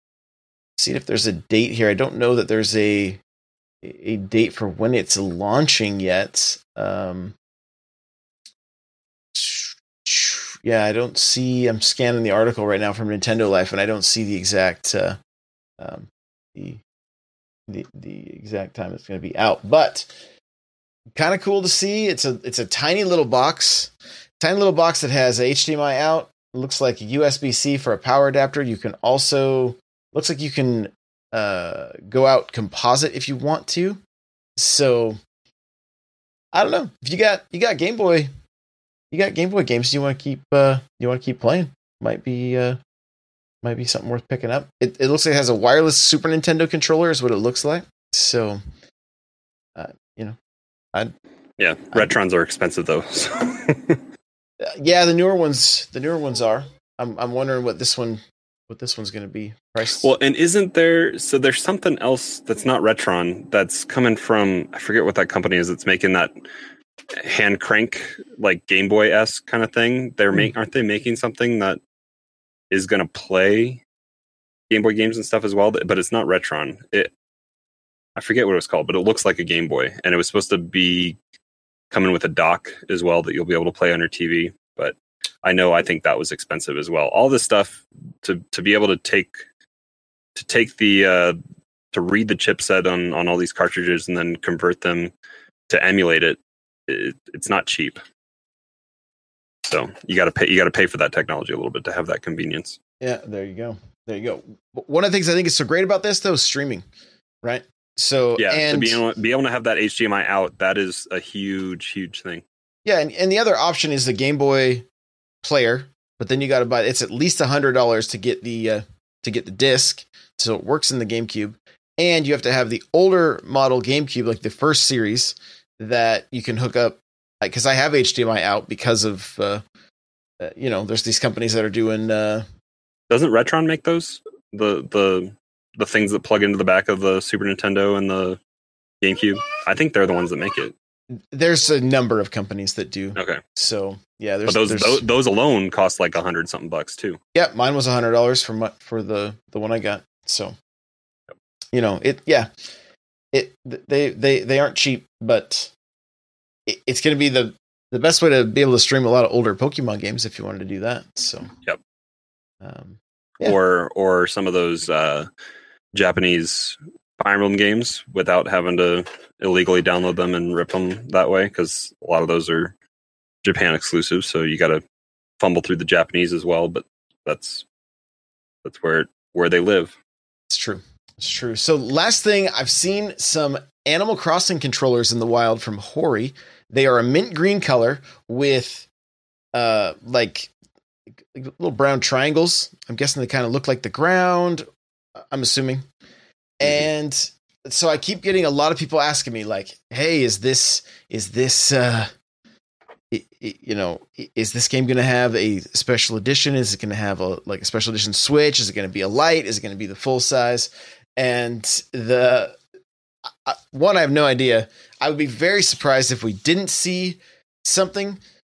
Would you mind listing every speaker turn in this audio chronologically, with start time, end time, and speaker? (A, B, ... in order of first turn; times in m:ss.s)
0:00.8-0:03.2 A
0:03.8-0:07.4 A
0:09.3-0:15.2 A
0:15.8-0:16.8 A
0:17.7-0:20.1 A
0:21.1-0:34.0 A
0:34.6-0:35.2 A
0:36.5-0:38.3 A
0:39.1-0:42.8 A
0:43.6-0:48.6 A
0:49.8-0:50.4 A
0:51.6-0:54.0 B
0:54.6-1:00.1 A
1:00.0-1:06.4 B
1:07.2-1:11.8 B
1:12.7-1:13.8 B
1:14.7-1:17.1 B
1:18.2-1:21.2 B
1:21.9-1:29.3 B
1:30.4-1:31.4 B
1:31.9-1:35.1 B
1:35.7-1:38.0 B
1:39.6-1:42.8 B
1:43.0-1:46.8 A
1:47.4-1:49.0 A
1:48.4-1:52.4 B
1:52.8-1:54.9 A
1:55.4-2:09.6 A
2:10.4-2:12.5 A
2:13.1-2:18.4 B
2:19.0-2:20.7 B
2:21.1-2:25.0 A
2:23.1-2:23.4 B
2:24.5-2:27.2 B
2:27.3-2:30.6 A
2:31.7-2:32.5 A
2:33.3-2:35.7 A
2:36.6-2:41.5 A
2:42.6-2:43.6 A
2:43.4-2:45.3 B
2:45.9-2:52.8 B
2:53.4-2:54.8 B
2:55.4-2:57.6 B
2:58.6-3:00.0 B
3:00.5-3:08.9 A
3:09.5-3:10.5 A
3:11.1-3:15.9 A
3:16.6-3:22.1 A
3:23.1-3:32.6 A
3:33.4-3:38.2 A